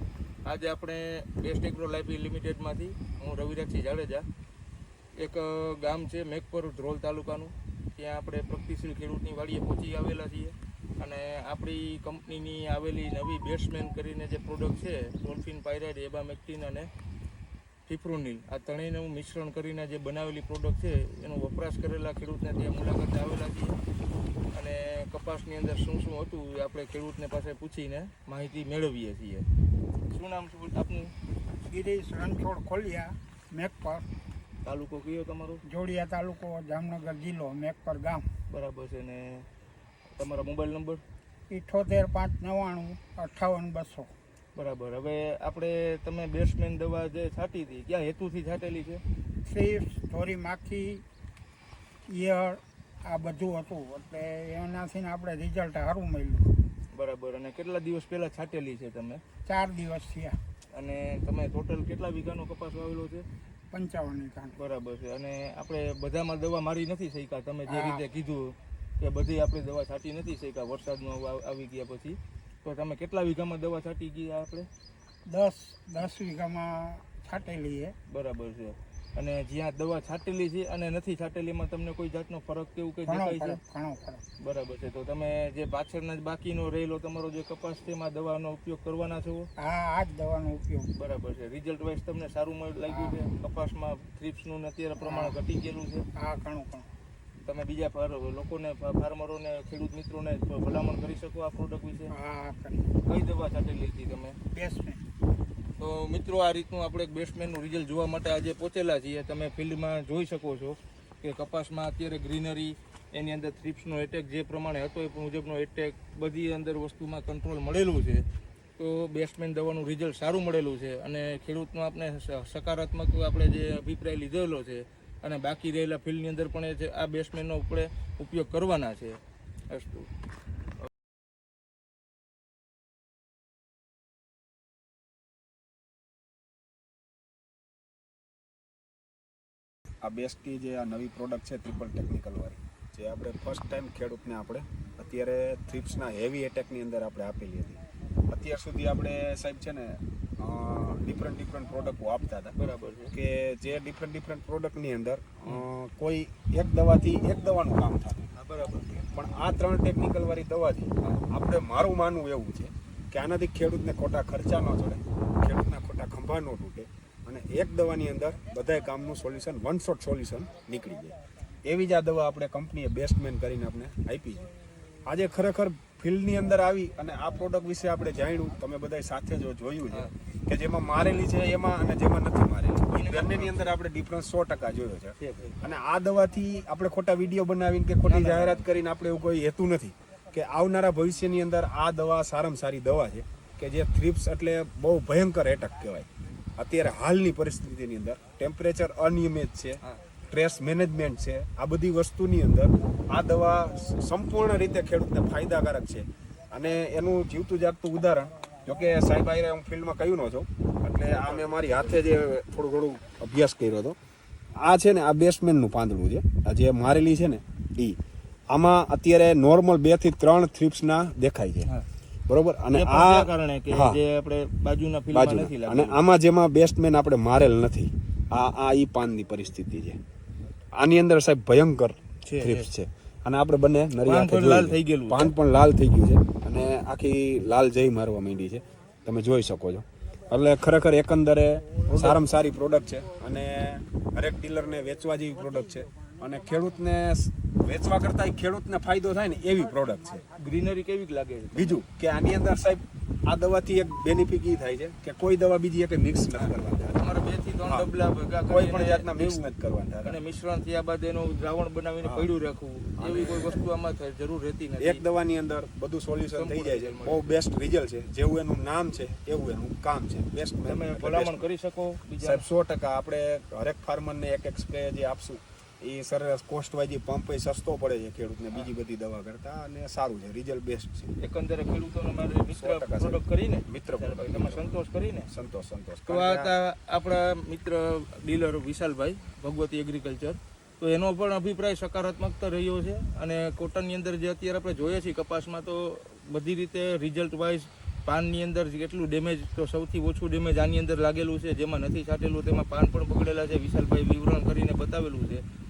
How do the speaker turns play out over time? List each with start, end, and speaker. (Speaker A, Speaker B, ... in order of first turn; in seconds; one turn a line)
Speaker A: 0.5-4.3
Speaker A: 5.2-16.9
Speaker A: 17.9-23.8
Speaker A: 24.5-29.5
Speaker A: 30.1-31.1
Speaker B: 31.7-34.0
Speaker A: 34.6-35.6
Speaker B: 35.6-38.2
Speaker A: 38.5-39.5
Speaker A: 40.2-41.0
Speaker B: 41.5-44.1
Speaker A: 44.5-49.0
Speaker B: 49.5-51.0
Speaker B: 52.0-56.5
Speaker A: 56.9-59.2
Speaker B: 59.5-60.4
Speaker A: 60.7-63.2
Speaker B: 63.7-64.5
Speaker A: 64.5-74.7
Speaker B: 67.7-68.0
Speaker B: 75.3-77.9
Speaker A: 78.1-83.6
Speaker B: 83.0-84.2
Speaker A: 84.4-89.5
Speaker B: 89.6-90.9
Speaker A: 90.9-96.1
Speaker B: 95.0-95.3
Speaker B: 96.1-96.9
Speaker A: 97.4-102.1
Speaker B: 102.1-102.9
Speaker A: 103.0-104.4
Speaker B: 104.5-105.0
Speaker A: 105.8-118.2
Speaker A: 118.8-130.1
Speaker C: 140.0-152.5
Speaker A: 152.6-153.1
Speaker C: 153.1-158.3
Speaker A: 158.3-159.0
Speaker C: 158.9-174.5
Speaker C: 175.1-213.9
Speaker A: 182.9-183.7
Speaker A: 185.2-185.6
Speaker A: 188.1-188.7
Speaker A: 211.0-211.6
Speaker C: 214.6-218.0
Speaker C: 218.5-221.7
Speaker C: 222.3-224.0
Speaker A: 222.7-226.0
Speaker C: 225.1-230.0
Speaker C: 230.7-250.2
Speaker A: 232.2-232.7
Speaker A: 234.0-235.3
Speaker A: 241.8-242.2
Speaker A: 250.4-251.8
Speaker C: 251.5-257.0
Speaker A: 256.4-259.5
Speaker C: 257.6-257.9
Speaker C: 258.5-260.2
Speaker A: 260.0-265.0
Speaker C: 262.0-262.3
Speaker C: 263.0-263.6
Speaker C: 264.8-271.5
Speaker A: 266.3-267.4
Speaker A: 270.6-272.5
Speaker C: 272.2-281.1
Speaker A: 281.2-285.3
Speaker C: 282.5-286.5
Speaker A: 286.1-305.4